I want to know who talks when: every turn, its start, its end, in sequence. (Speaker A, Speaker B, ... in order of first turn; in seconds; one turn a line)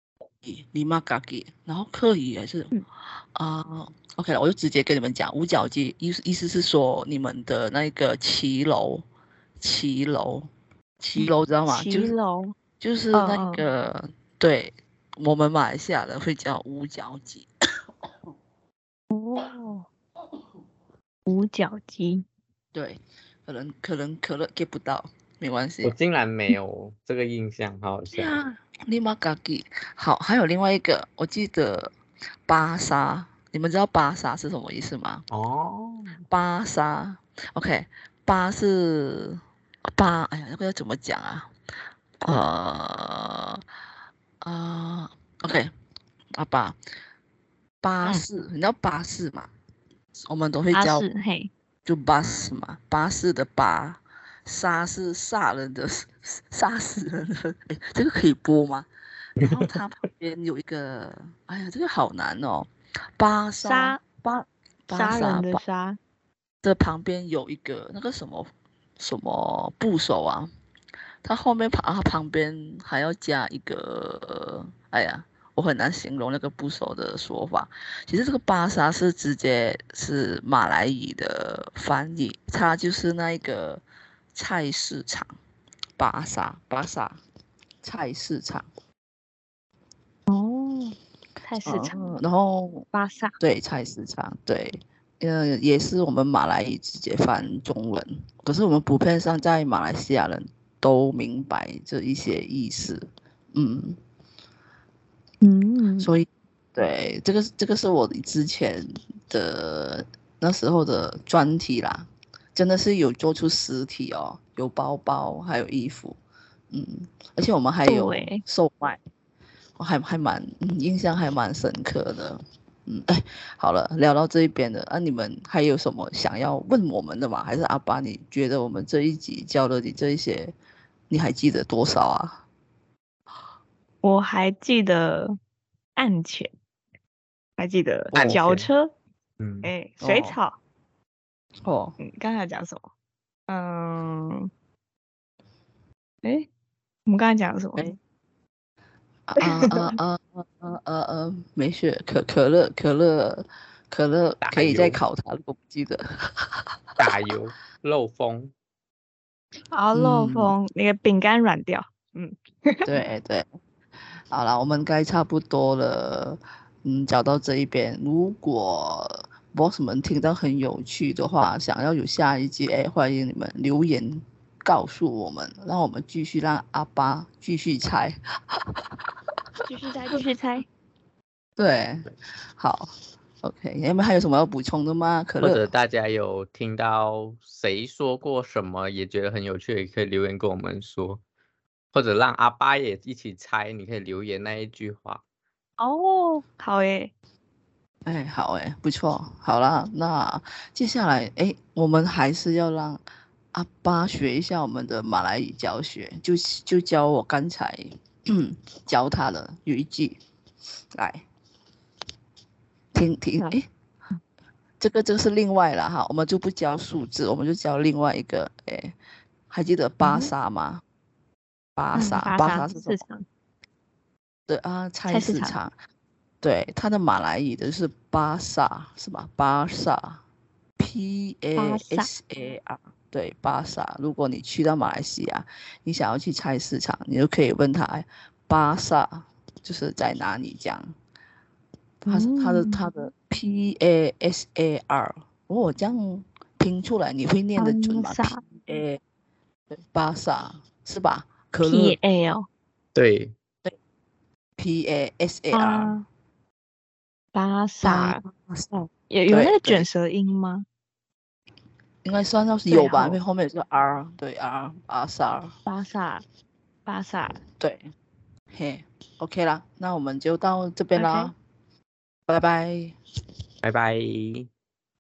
Speaker A: 0.4-2.7
Speaker A: 3.4-9.1
Speaker A: 9.6-10.5
Speaker A: 11.0-12.1
Speaker B: 11.2-12.5
Speaker A: 12.8-17.5
Speaker B: 13.1-13.6
Speaker B: 19.1-19.9
Speaker B: 21.3-22.2
Speaker A: 22.7-25.9
Speaker C: 25.8-28.3
Speaker A: 28.1-31.9
Speaker A: 32.5-35.2
Speaker C: 35.3-36.2
Speaker A: 36.3-39.4
Speaker A: 39.9-41.5
Speaker A: 42.2-43.6
Speaker A: 44.4-45.7
Speaker A: 46.3-46.8
Speaker A: 47.8-49.5
Speaker A: 50.2-51.1
Speaker B: 50.7-51.5
Speaker A: 51.9-58.9
Speaker A: 59.4-65.6
Speaker C: 59.4-59.7
Speaker B: 63.6-64.0
Speaker B: 64.9-66.0
Speaker A: 66.6-70.5
Speaker A: 71.2-83.8
Speaker A: 84.3-85.3
Speaker A: 86.0-87.2
Speaker A: 87.8-88.7
Speaker B: 90.3-92.2
Speaker A: 91.6-92.9
Speaker B: 92.9-93.3
Speaker A: 93.4-104.0
Speaker B: 105.4-106.1
Speaker A: 106.0-116.2
Speaker A: 116.7-119.0
Speaker B: 117.9-118.4
Speaker A: 119.8-130.5
Speaker A: 131.1-132.4
Speaker B: 134.0-135.3
Speaker B: 136.0-136.5
Speaker B: 137.6-138.9
Speaker C: 138.1-138.7
Speaker A: 138.1-138.4
Speaker C: 139.4-139.7
Speaker B: 139.6-140.6
Speaker A: 140.0-140.4
Speaker A: 141.6-142.0
Speaker B: 142.0-142.8
Speaker B: 143.5-144.5
Speaker B: 146.2-146.5
Speaker B: 147.1-147.8
Speaker A: 149.3-157.1
Speaker B: 149.4-149.9
Speaker C: 154.4-155.0
Speaker C: 157.0-158.5
Speaker B: 159.7-162.9
Speaker A: 159.9-160.6
Speaker A: 162.8-163.5
Speaker A: 164.3-179.0
Speaker B: 179.7-180.7
Speaker A: 181.6-185.7
Speaker C: 185.4-191.2
Speaker C: 191.9-195.2
Speaker B: 195.8-197.1
Speaker A: 198.1-203.0
Speaker A: 203.5-210.2
Speaker A: 210.9-211.2
Speaker A: 212.9-213.7
Speaker A: 214.8-218.9
Speaker A: 219.5-220.8
Speaker B: 220.0-220.3
Speaker A: 221.8-223.0
Speaker B: 221.9-223.2
Speaker A: 224.5-225.7
Speaker B: 225.1-225.6
Speaker A: 226.4-230.2
Speaker A: 230.8-240.9
Speaker B: 231.6-232.1
Speaker A: 242.0-249.0
Speaker B: 242.1-242.8
Speaker B: 247.6-248.4
Speaker A: 249.7-252.0
Speaker B: 251.6-252.5
Speaker C: 252.9-253.3
Speaker A: 254.6-255.9
Speaker B: 255.5-256.1
Speaker B: 257.4-258.2
Speaker A: 257.8-259.9
Speaker B: 259.1-260.6
Speaker A: 262.0-265.5
Speaker B: 262.7-263.2
Speaker B: 265.6-266.2
Speaker B: 266.9-267.4
Speaker A: 267.6-267.9
Speaker A: 268.5-271.3
Speaker B: 271.0-271.3
Speaker A: 272.3-273.0
Speaker C: 273.6-274.5